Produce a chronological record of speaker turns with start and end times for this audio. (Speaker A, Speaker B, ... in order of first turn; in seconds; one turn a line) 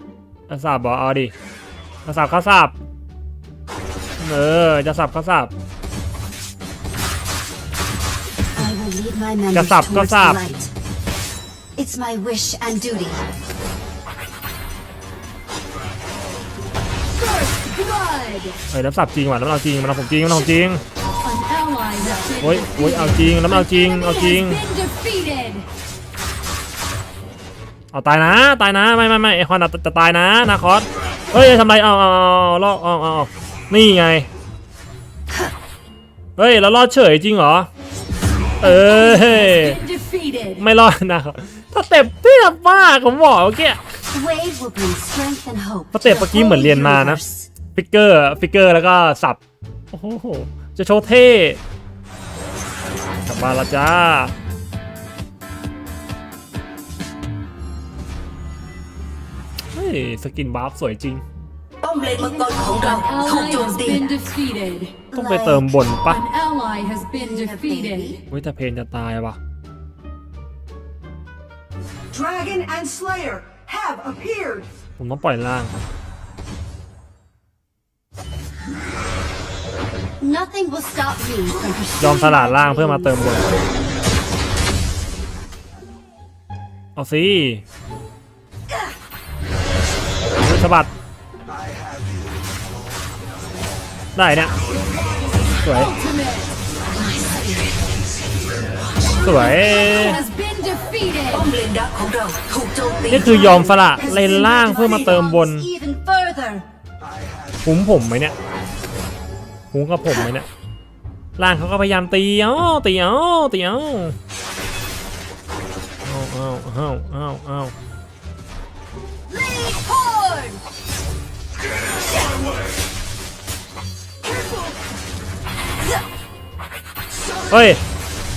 Speaker A: 0.5-1.3
Speaker A: 2.0-2.7
Speaker A: 4.2-5.5
Speaker B: 8.6-10.7
Speaker A: 9.5-10.5
Speaker B: 11.8-13.2
Speaker C: 17.1-18.6
Speaker A: 18.7-20.8
Speaker C: 21.2-23.6
Speaker A: 22.4-24.7
Speaker C: 24.6-25.7
Speaker A: 27.9-34.3
Speaker A: 36.4-37.7
Speaker A: 38.6-39.9
Speaker C: 38.9-40.6
Speaker A: 40.6-43.8
Speaker B: 44.1-47.5
Speaker A: 45.9-47.2
Speaker A: 47.7-49.4
Speaker A: 49.9-51.6
Speaker A: 53.2-54.3
Speaker A: 59.7-61.2
Speaker D: 61.8-64.1
Speaker B: 62.1-64.3
Speaker C: 62.9-63.3
Speaker C: 64.0-65.0
Speaker B: 65.1-65.7
Speaker A: 65.1-66.3
Speaker C: 66.1-68.1
Speaker B: 67.0-68.2
Speaker A: 68.3-69.4
Speaker E: 72.1-74.7
Speaker A: 75.0-75.8
Speaker B: 80.2-83.3
Speaker A: 82.0-83.5
Speaker A: 87.0-87.6
Speaker A: 90.4-90.9
Speaker A: 94.1-94.5
Speaker A: 95.6-96.0
Speaker C: 95.9-96.5
Speaker A: 99.2-100.3
Speaker C: 100.1-101.3
Speaker D: 101.3-103.8
Speaker B: 103.0-106.6
Speaker A: 103.1-105.7
Speaker A: 107.6-108.3
Speaker A: 109.7-110.5
Speaker A: 111.4-114.2
Speaker A: 116.0-117.7
Speaker A: 127.5-127.8